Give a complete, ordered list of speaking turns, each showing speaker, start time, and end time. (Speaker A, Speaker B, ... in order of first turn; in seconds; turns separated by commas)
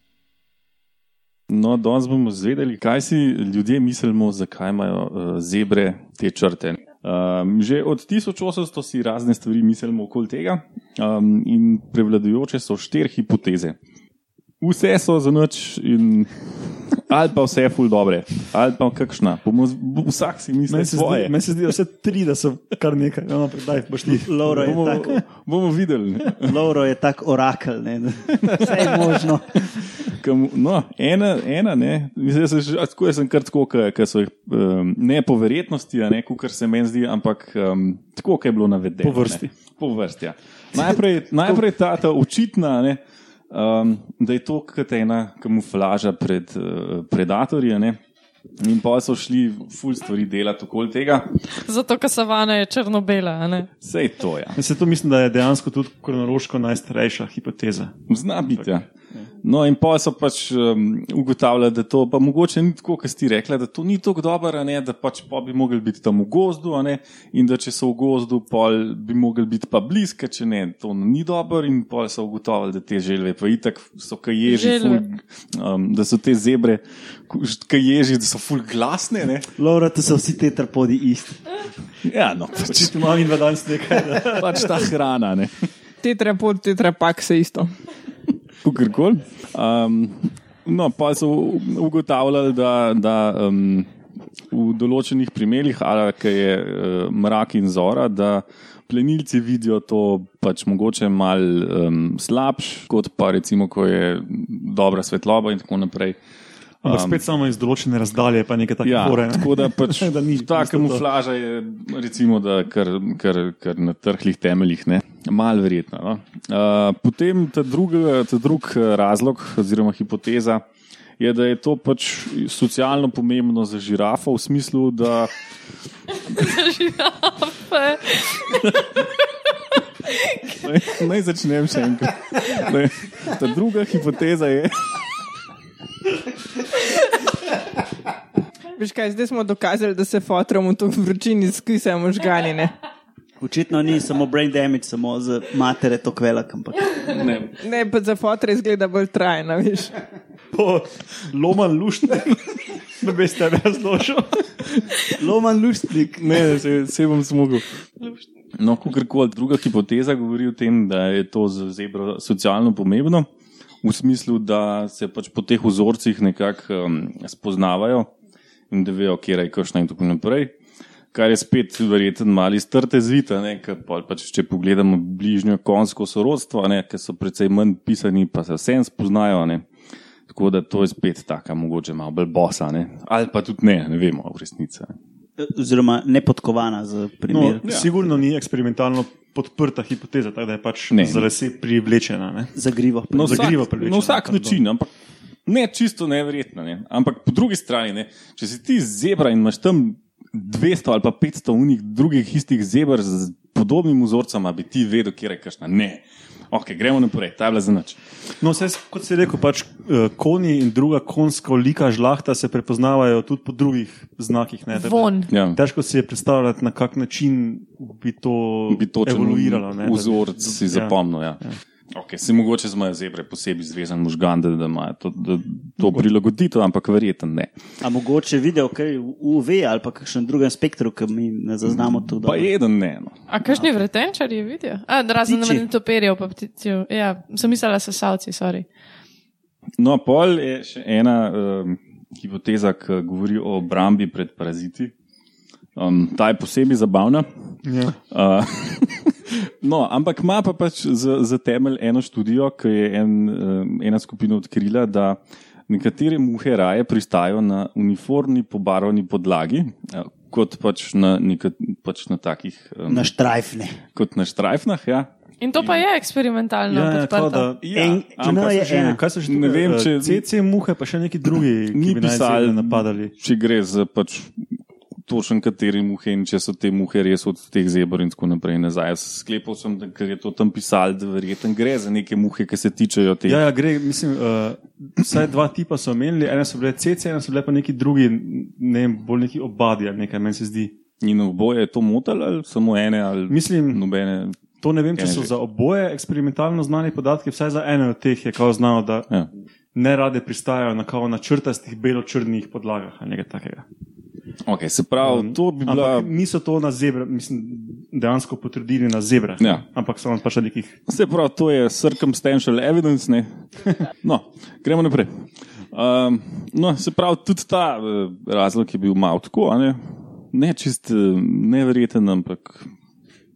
Speaker A: 1.5-13.8, Speaker A: 14.6-21.3, Speaker B: 20.7-25.2, Speaker C: 24.1-25.1, Speaker A: 24.6-26.5, Speaker C: 26.4-29.7, Speaker B: 28.4-28.8, Speaker A: 30.0-48.0, Speaker B: 39.0-39.5, Speaker B: 40.7-41.6, Speaker A: 48.6-51.4, Speaker D: 51.5-53.7, Speaker A: 53.8-54.6, Speaker B: 54.5-59.3, Speaker A: 58.1-58.9, Speaker A: 59.4-79.5, Speaker D: 74.4-75.0, Speaker C: 79.6-81.5, Speaker A: 82.0-83.0, Speaker B: 82.6-84.9, Speaker A: 84.2-85.7, Speaker E: 86.0-87.7, Speaker A: 88.6-93.9, Speaker A: 94.5-106.2, Speaker B: 106.8-111.1, Speaker A: 106.8-107.2, Speaker A: 108.8-120.6, Speaker A: 121.2-125.3, Speaker D: 126.3-129.2, Speaker A: 128.6-128.9, Speaker D: 130.1-130.7, Speaker A: 130.6-135.0, Speaker E: 138.8-142.7, Speaker C: 143.4-147.3, Speaker A: 147.1-147.5, Speaker E: 147.6-150.0, Speaker B: 150.5-154.5, Speaker C: 155.1-156.5, Speaker A: 156.2-157.7, Speaker A: 158.6-163.3, Speaker A: 163.8-168.1, Speaker A: 168.7-170.5, Speaker A: 171.1-179.7, Speaker A: 180.3-184.9, Speaker C: 185.4-187.9, Speaker B: 187.3-192.5, Speaker A: 187.6-187.9, Speaker A: 190.9-191.3, Speaker C: 192.5-193.6, Speaker B: 193.1-194.6, Speaker A: 193.1-194.9, Speaker A: 195.5-208.0, Speaker B: 208.4-221.6, Speaker D: 214.7-215.3, Speaker A: 215.3-215.6, Speaker A: 218.7-221.4, Speaker A: 221.9-227.5, Speaker B: 225.8-226.1, Speaker C: 227.8-232.5, Speaker A: 231.8-233.2, Speaker D: 233.3-238.7, Speaker C: 235.2-235.7, Speaker A: 239.8-244.9, Speaker A: 245.8-247.6, Speaker B: 247.6-248.0, Speaker A: 248.1-263.1, Speaker C: 262.9-263.8, Speaker A: 263.9-265.8, Speaker D: 265.4-267.5, Speaker B: 266.7-273.1, Speaker C: 267.7-269.0, Speaker A: 269.2-270.3, Speaker A: 271.7-274.5, Speaker A: 275.1-283.4, Speaker B: 283.3-290.8, Speaker A: 291.0-294.4, Speaker B: 293.3-293.8, Speaker B: 294.6-299.1, Speaker A: 295.0-295.3, Speaker B: 299.7-303.6, Speaker A: 304.4-306.1, Speaker B: 305.0-310.8, Speaker A: 310.9-322.7